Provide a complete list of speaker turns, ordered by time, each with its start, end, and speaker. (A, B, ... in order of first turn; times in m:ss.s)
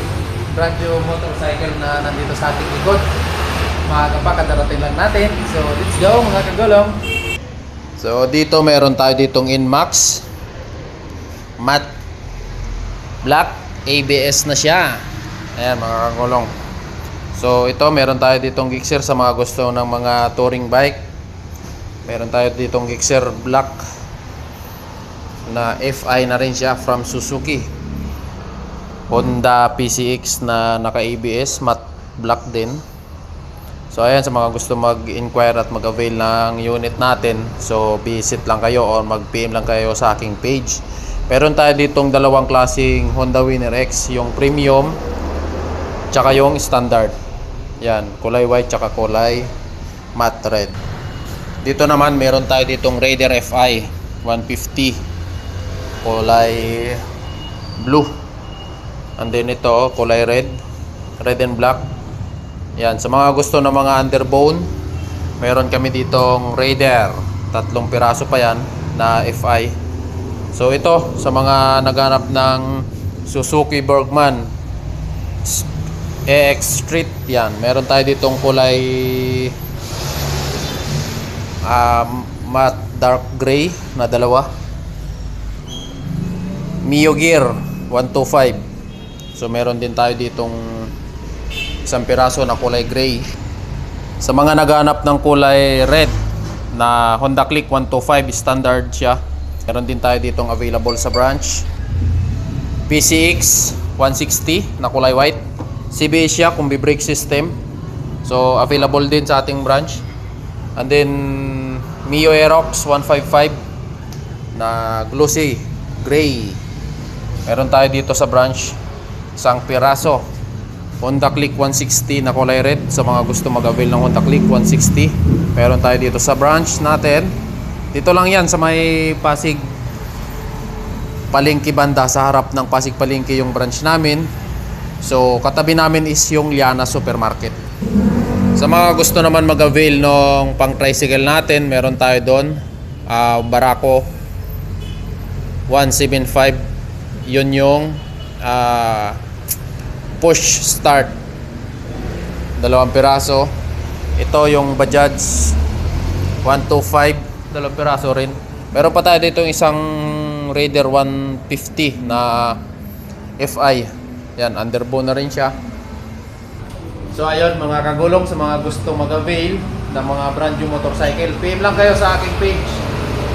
0:00.5-0:03.0 A
0:03.8-0:07.0 A
0:08.0-0:10.2 A
0:11.6-0:11.9 A
0:13.2-0:15.0 A
0:15.6-0:16.5 A
0:17.3-0:21.0 A
0:22.0-0:23.8 A
0:25.4-0:27.7 A
0:29.1-0:32.8 A
0:33.9-0:45.0 A
0:46.1-0:47.2 A
0:47.8-0:49.5 A
0:50.1-0:50.8 A
0:51.6-0:55.0 A
0:56.0-0:57.0 A
0:57.8-0:58.1 A
0:59.2-1:00.6 A
1:01.2-1:01.9 A
1:02.8-1:04.7 A
1:05.4-1:09.7 A
1:10.5-1:14.5 A
1:16.3-1:19.5 A
1:21.6-1:24.5 A
1:26.8-1:28.6 A
1:29.3-1:30.9 A
1:31.8-1:33.3 A
1:34.2-1:36.1 A
1:36.7-1:41.6 A
1:42.9-1:45.4 A
1:45.9-1:47.6 A
1:48.2-1:50.0 A
1:50.8-1:53.6 A
1:54.5-1:56.6 A
1:57.4-1:58.8 A
1:59.4-2:00.2 A
2:01.0-2:07.3 A
2:07.9-2:09.7 A
2:11.3-2:14.3 A
2:15.0-2:17.6 A
2:18.5-2:24.0 A
2:25.7-2:26.6 A
2:27.2-2:29.2 A
2:30.2-2:31.2 A
2:32.6-2:33.5 A
2:34.2-2:35.6 A
2:36.4-2:42.6 A
2:43.4-2:45.5 A
2:47.1-2:52.8 A